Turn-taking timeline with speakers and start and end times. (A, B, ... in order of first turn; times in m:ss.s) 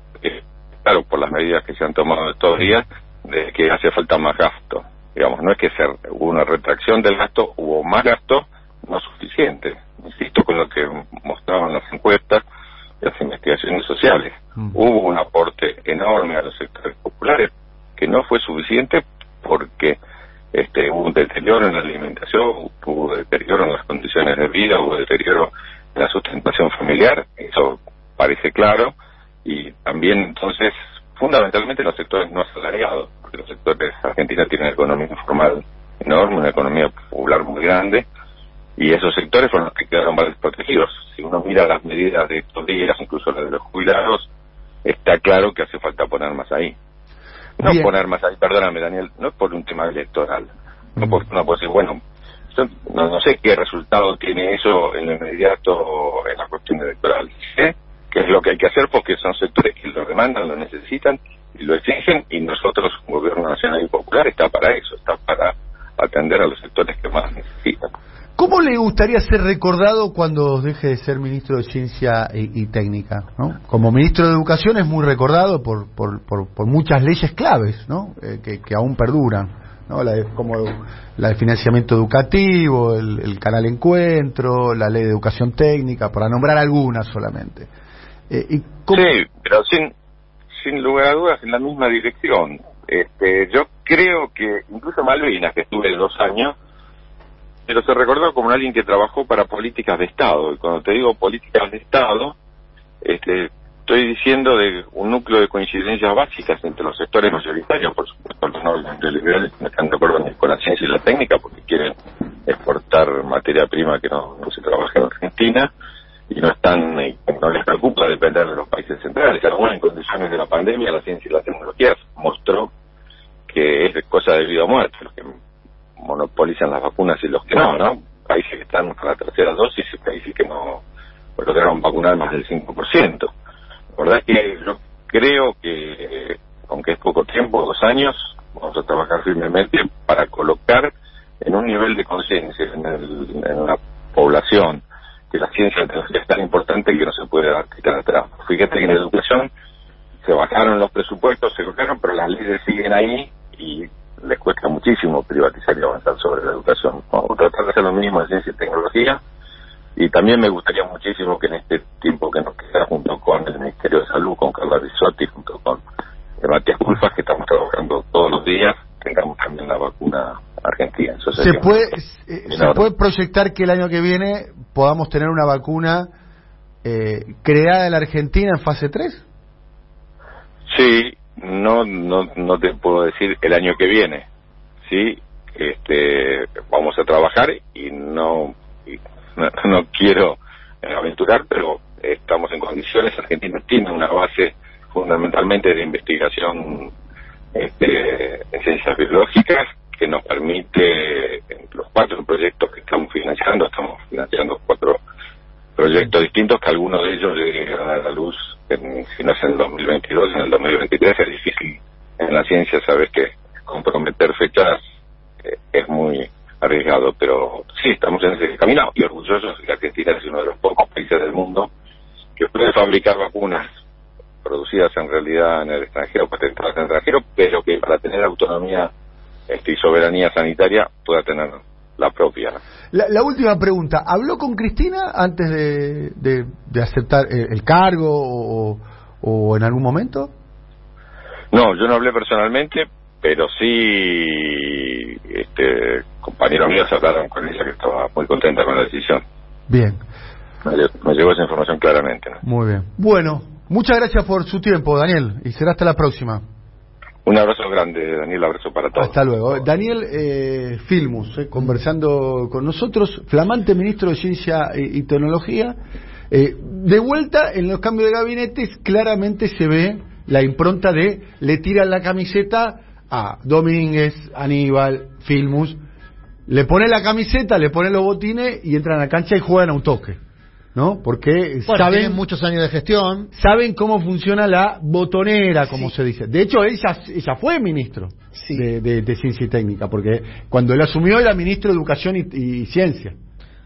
0:00.2-0:12.4 A
0:13.0-0:20.0 A
0:20.5-0:28.9 A
0:29.4-0:38.1 A
0:38.8-0:44.3 A
0:44.8-0:46.8 A
0:47.6-0:52.0 A
0:47.6-0:47.9 B
0:52.5-1:07.9 A
1:08.4-1:27.7 B
1:28.3-1:29.1 B
1:28.9-1:29.9 A
1:30.6-1:36.6 A
1:37.7-1:42.4 A
1:43.0-1:51.9 A
1:52.5-1:55.7 A
1:56.3-2:02.7 A
2:03.5-2:05.3 A
2:06.0-2:10.8 A
2:11.4-2:13.3 A
2:14.0-2:29.5 A
2:30.2-2:39.2 A
2:40.0-2:45.8 A
2:46.4-2:51.8 A
2:51.4-2:56.1 B
2:52.5-2:52.9 A
2:56.8-2:59.2 B
3:00.7-3:04.2 A
3:04.9-3:16.9 A
3:17.6-3:25.0 A
3:25.8-3:34.8 A
3:35.4-3:41.7 A
3:42.4-3:43.7 A
3:44.4-3:48.9 A
3:49.5-3:52.6 A
3:52.9-4:00.3 B
4:01.5-4:09.2 A
4:09.7-4:10.0 B
4:10.6-4:12.4 A
4:12.4-4:16.4 B
4:17.2-4:19.1 A
4:19.0-4:25.8 B
4:26.3-4:35.8 B
4:36.5-4:40.2 B
4:40.8-4:42.2 B
4:41.7-4:43.3 C
4:43.3-4:53.2 B
4:48.4-4:48.6 C